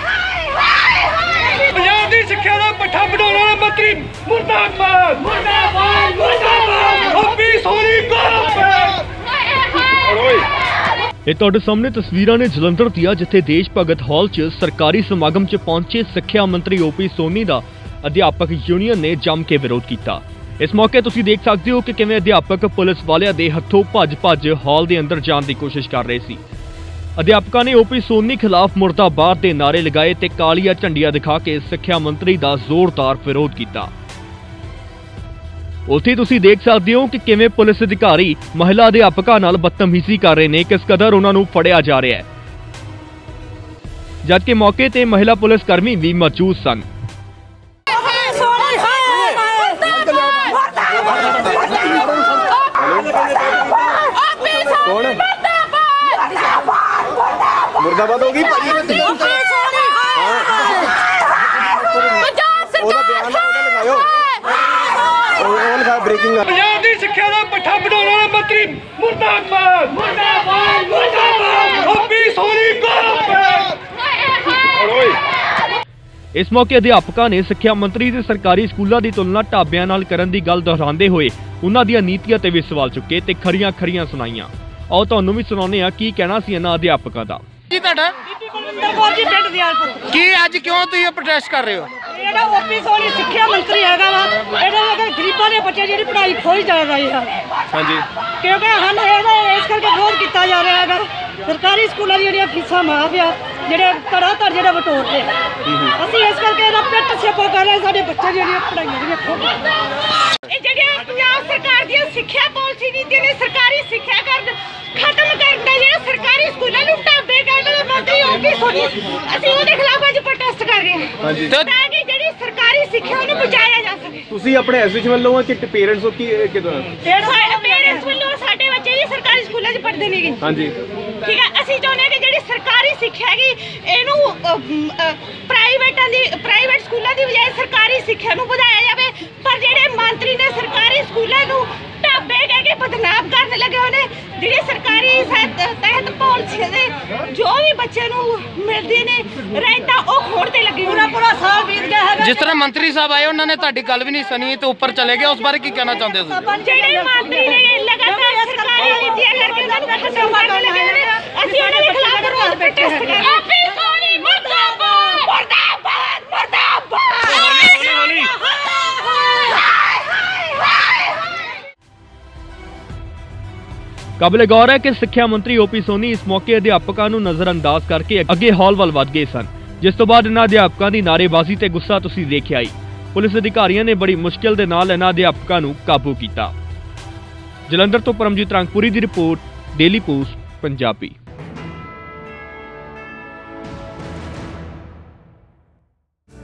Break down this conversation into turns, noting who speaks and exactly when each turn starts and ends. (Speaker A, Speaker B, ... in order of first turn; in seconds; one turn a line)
Speaker A: 1.8-8.9
Speaker B: 5.2-6.7
Speaker C: 11.3-26.4
Speaker C: 27.2-33.9
Speaker C: 35.9-42.2
Speaker C: 44.2-46.8
Speaker D: 48.1-49.8
Speaker E: 52.8-53.8
Speaker E: 54.7-55.2
Speaker E: 57.8-59.0
Speaker E: 60.2-60.5
Speaker E: 62.8-64.1
Speaker E: 65.3-66.5
Speaker A: 66.5-73.7
Speaker C: 76.3-87.4
Speaker B: 87.7-88.1
Speaker D: 88.3-90.1
Speaker B: 90.1-91.9
Speaker D: 92.1-97.4
Speaker E: 97.7-98.0
Speaker D: 98.4-105.4
Speaker E: 105.7-105.9
Speaker D: 106.0-109.6
Speaker F: 110.5-124.2
Speaker E: 121.2-121.6
Speaker E: 124.3-126.9
Speaker F: 127.0-130.4
Speaker E: 130.4-130.8
Speaker F: 131.2-152.1
Speaker D: 151.2-152.4
Speaker B: 152.2-156.4
Speaker D: 156.3-157.5
Speaker F: 156.4-168.3
Speaker D: 158.0-158.8
Speaker D: 160.1-160.9
Speaker D: 161.5-162.9
Speaker C: 174.2-186.5
Speaker C: 187.7-191.1